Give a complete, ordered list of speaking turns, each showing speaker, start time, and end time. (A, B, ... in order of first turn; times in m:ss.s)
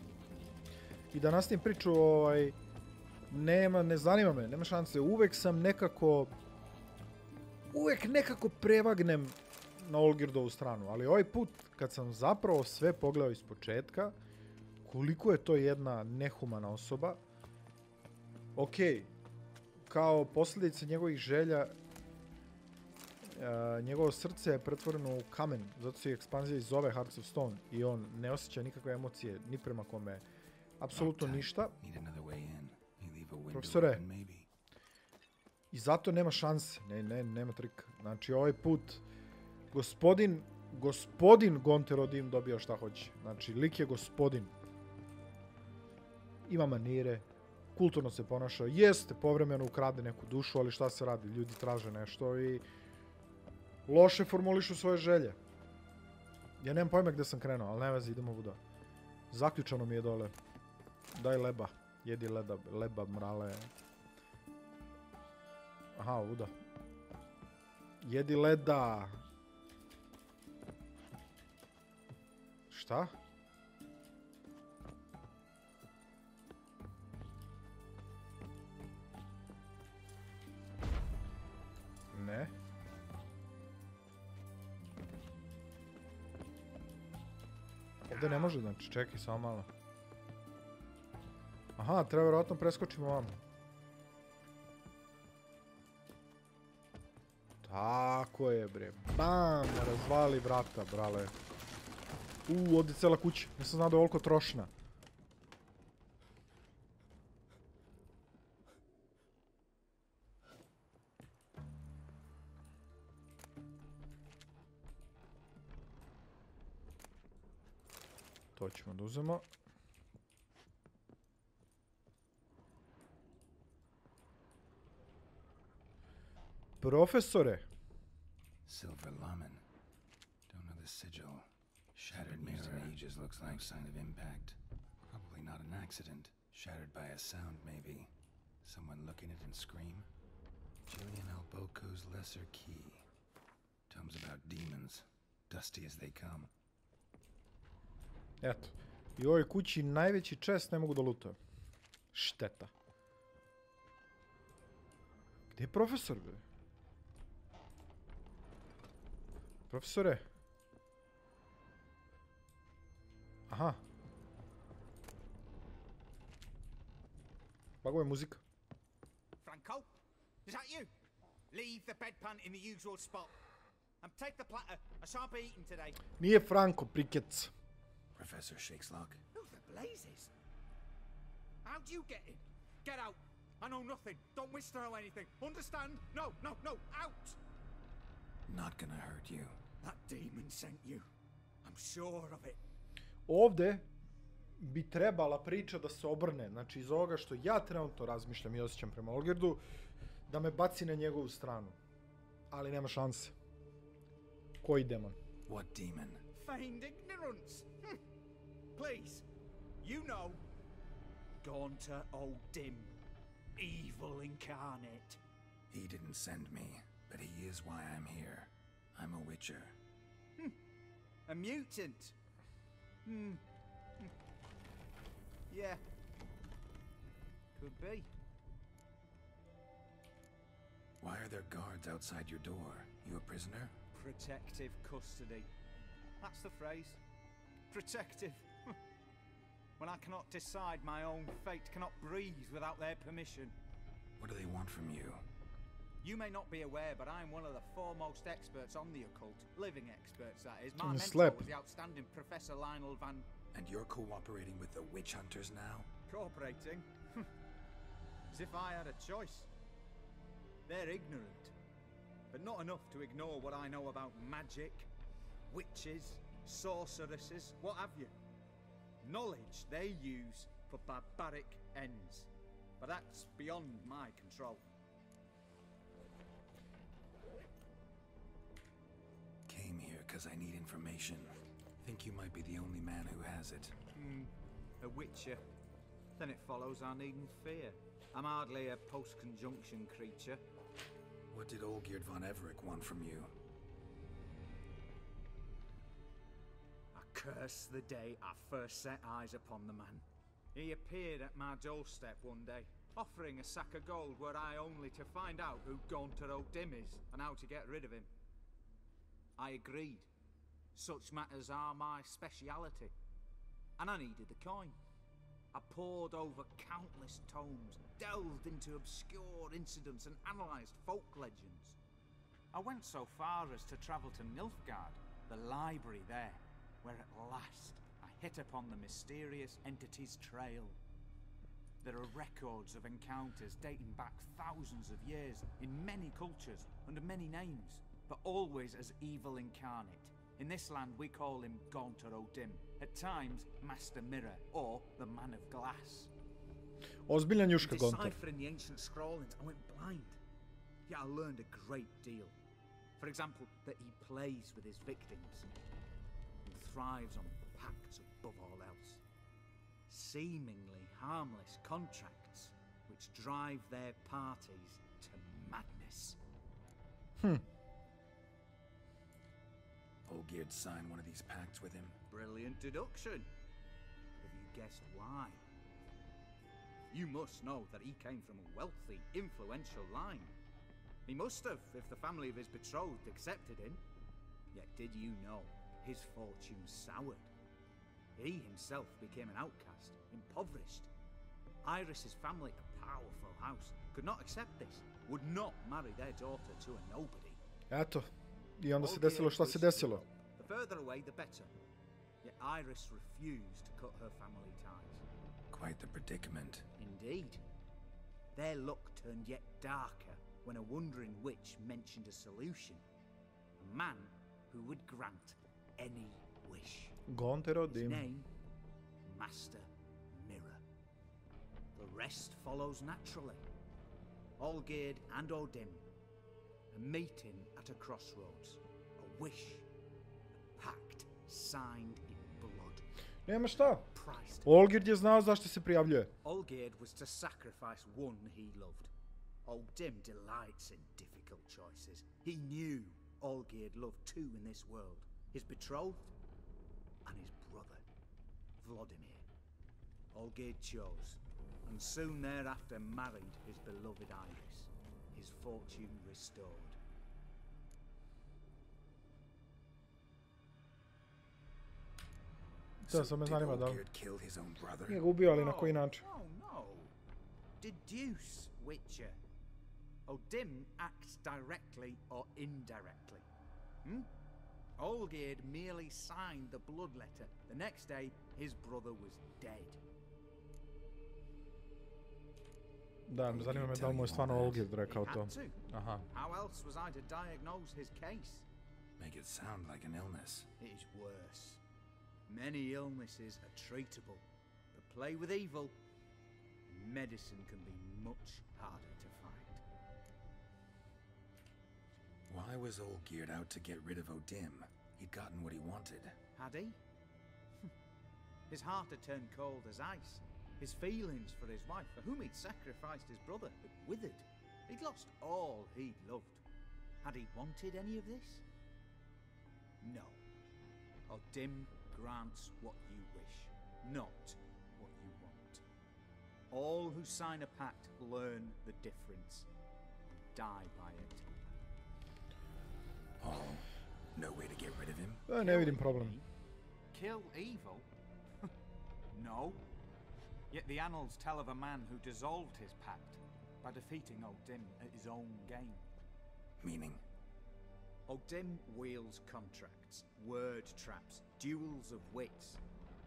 0:01.1-0:02.6 A
0:03.3-0:06.3 A
0:07.7-0:14.2 A
0:14.8-0:17.2 A
0:18.5-0:19.1 A
0:19.9-0:21.7 A
0:23.2-0:30.2 A
0:30.8-0:31.7 A
0:30.9-0:34.5 B
0:33.5-0:34.0 A
0:35.7-0:39.0 A
0:39.7-0:44.5 A
0:46.4-0:52.6 A
0:53.9-0:55.4 A
0:56.6-0:58.6 A
0:59.3-1:00.3 A
1:01.1-1:03.7 A
1:06.0-1:06.5 A
1:08.0-1:09.2 A
1:12.7-1:13.2 A
1:22.1-1:22.5 A
1:28.0-1:29.7 A
1:31.8-1:33.4 A
1:37.6-1:41.3 A
1:42.5-1:44.7 A
1:58.5-1:59.4 A
2:06.8-2:07.7 A
2:08.6-2:09.6 B
2:10.5-2:14.6 B
2:12.3-2:12.9 A
2:15.1-2:18.1 B
2:18.6-2:20.1 B
2:20.9-2:23.0 B
2:23.9-2:26.5 B
2:28.4-2:31.4 A
2:32.1-2:32.7 A
2:35.5-2:36.4 A
2:39.7-2:40.2 A
2:43.5-2:43.8 A
2:47.8-2:48.4 A
2:49.4-2:50.9 C
2:51.5-2:53.3 C
2:54.0-2:56.0 C
2:56.2-2:57.5 A
2:58.2-2:59.2 B
2:59.3-3:00.3 C
3:01.6-3:07.4 C
3:08.5-3:09.5 B
3:09.8-3:11.1 C
3:11.6-3:12.6 C
3:13.3-3:13.9 A
3:14.6-3:19.6 A
3:20.3-3:21.8 A
3:22.5-3:23.3 A
3:24.6-3:25.2 A
3:25.5-3:26.2 B
3:26.3-3:28.0 C
3:28.8-3:29.2 C
3:29.8-3:30.4 C
3:31.4-3:33.0 C
3:33.6-3:35.2 C
3:35.7-3:39.7 B
3:41.3-3:42.1 C
3:43.0-3:43.4 C
3:45.5-3:45.8 C
3:47.6-3:48.1 C
3:51.0-3:53.7 B
3:53.9-3:55.5 C
3:56.2-3:57.0 C
3:57.7-3:58.7 C
3:59.8-4:03.5 C
4:04.2-4:05.2 B
4:06.0-4:13.3 C
4:10.8-4:11.5 A
4:13.5-4:15.9 B
4:16.1-4:17.3 C
4:18.3-4:19.5 C
4:20.7-4:21.5 C
4:22.3-4:24.9 C
4:25.5-4:28.1 C
4:29.0-4:32.3 C
4:32.8-4:34.7 C
4:39.5-4:43.7 B
4:43.9-4:45.4 C
4:46.2-4:50.4 C
4:51.3-4:53.3 B
4:56.9-5:08.1 C
5:09.4-5:10.1 C
5:10.7-5:12.9 C
5:13.8-5:14.8 C
5:15.5-5:21.8 C
5:22.5-5:30.8 C
5:31.8-5:46.1 C
5:47.1-5:48.2 A
5:47.6-5:50.2 C
5:50.9-5:52.3 C
5:53.0-5:55.5 C
5:56.4-5:59.0 C
5:59.9-6:06.2 C
6:07.2-6:07.4 A
6:10.1-6:12.0 B
6:12.1-6:13.3 C
6:14.2-6:15.4 C
6:16.9-6:20.3 C
6:21.1-6:23.8 C
6:24.5-6:27.3 C
6:28.2-6:30.9 C
6:31.6-6:37.4 C
6:37.7-6:40.0 A
6:38.8-6:41.5 C
6:42.2-6:45.0 C
6:45.5-6:46.6 B
6:46.8-6:47.4 C
6:48.3-6:52.8 C
6:53.6-6:57.0 C
6:57.1-6:58.1 A
6:57.7-6:58.3 C
6:59.0-7:00.6 C
7:01.7-7:03.4 C
7:04.4-7:05.8 C
7:06.7-7:09.6 C
7:10.6-7:12.8 C
7:13.3-7:13.9 A
7:13.9-7:14.5 C
7:14.4-7:16.1 A
7:16.2-7:18.9 C
7:19.4-7:26.1 C
7:27.0-7:27.8 C
7:28.6-7:29.2 C
7:30.1-7:36.8 C
7:42.8-7:43.8 A
7:42.9-7:45.0 B
7:44.9-7:46.0 A
7:45.3-7:46.9 C
7:47.6-7:49.2 C
7:50.1-7:53.2 C
7:53.8-7:54.1 C
7:54.8-7:59.8 C
8:03.1-8:06.0 A
8:03.3-8:04.7 B
8:04.8-8:05.6 C
8:06.1-8:08.4 C
8:09.0-8:10.5 B
8:10.6-8:11.6 C
8:12.3-8:15.8 C
8:16.7-8:19.6 C
8:22.3-8:26.2 B
8:26.4-8:26.8 C
8:28.5-8:36.4 C
8:37.0-8:38.4 C
8:39.8-8:40.2 C
8:41.1-8:45.6 C
8:46.5-8:49.5 C
8:50.3-8:51.4 C
8:53.2-8:55.2 B
8:55.3-8:56.2 A
8:55.3-8:56.2 C
8:56.9-8:57.9 C
8:59.1-8:59.7 C
9:00.5-9:05.9 C
9:06.6-9:07.0 B
9:08.1-9:12.6 C